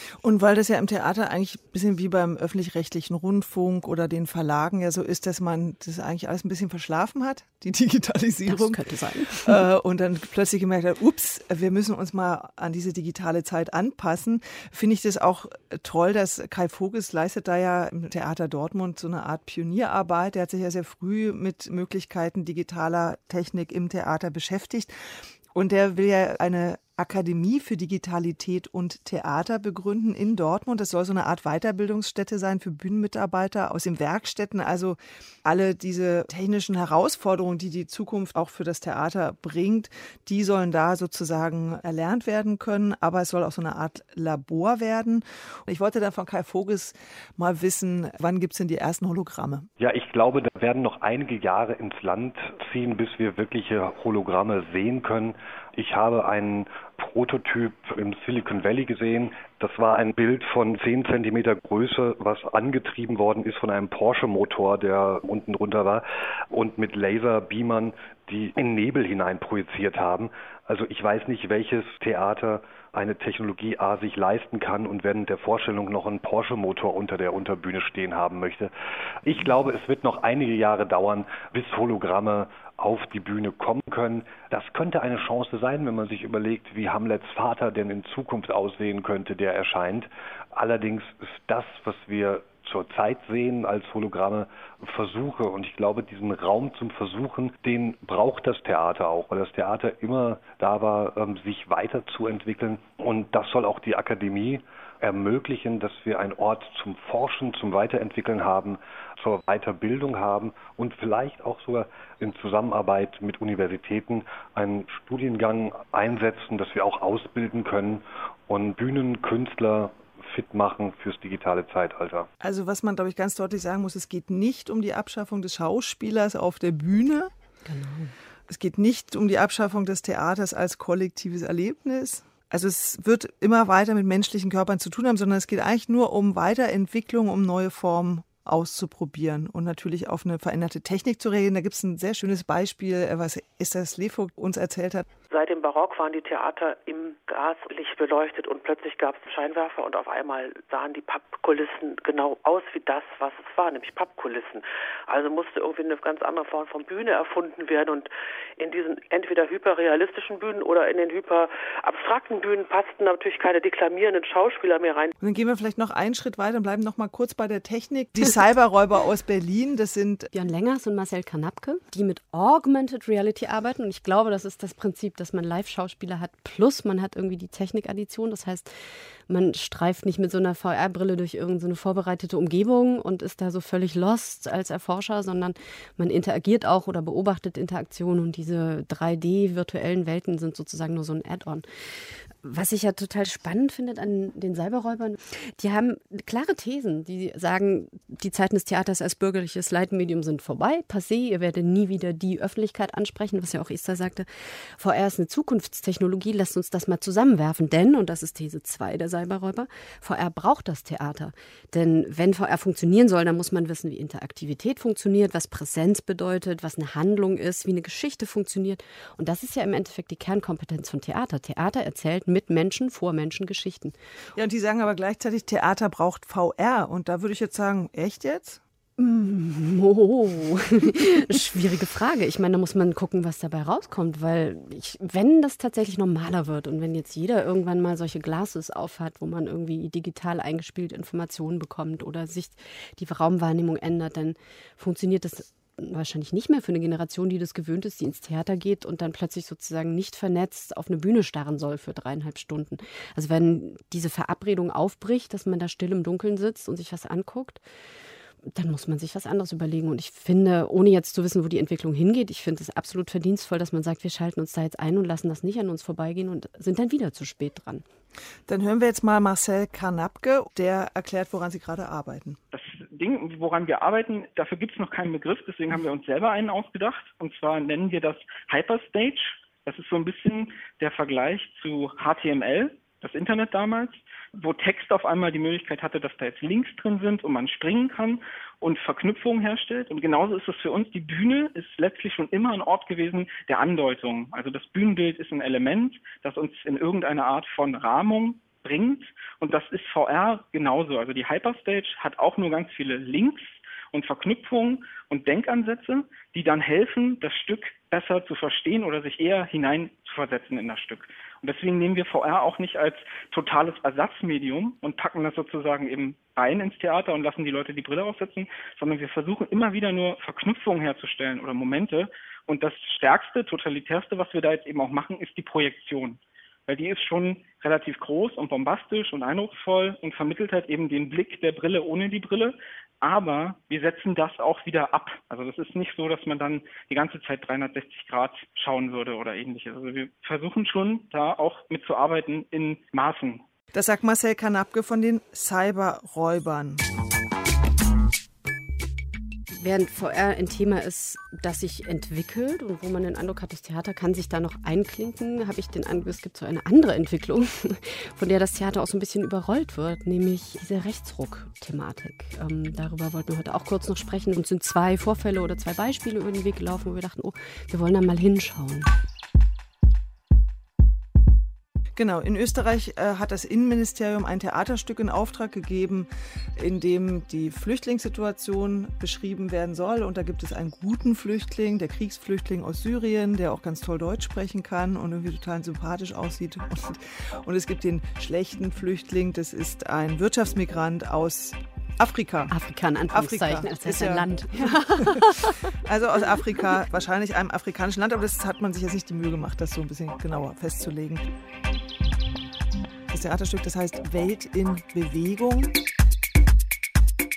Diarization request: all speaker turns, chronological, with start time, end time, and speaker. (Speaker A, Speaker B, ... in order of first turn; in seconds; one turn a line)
Speaker A: 0.2-24.9
Speaker B: 8.5-9.6
Speaker A: 25.5-49.7
Speaker C: 49.8-78.7
Speaker C: 79.2-122.3
Speaker A: 122.4-127.3
Speaker B: 127.7-128.1
Speaker A: 128.5-145.1
Speaker D: 145.3-165.1
Speaker A: 165.2-170.3
Speaker B: 170.3-178.7
Speaker B: 179.3-191.6
Speaker B: 192.4-223.9
Speaker A: 224.4-228.6
Speaker B: 229.0-257.6
Speaker B: 258.5-267.8
Speaker A: 268.5-272.4
Speaker E: 272.5-343.4
Speaker A: 343.7-346.8
Speaker B: 349.5-368.9
Speaker A: 372.0-392.5
Speaker B: 392.5-395.7
Speaker A: 393.1-401.3
Speaker A: 403.1-405.7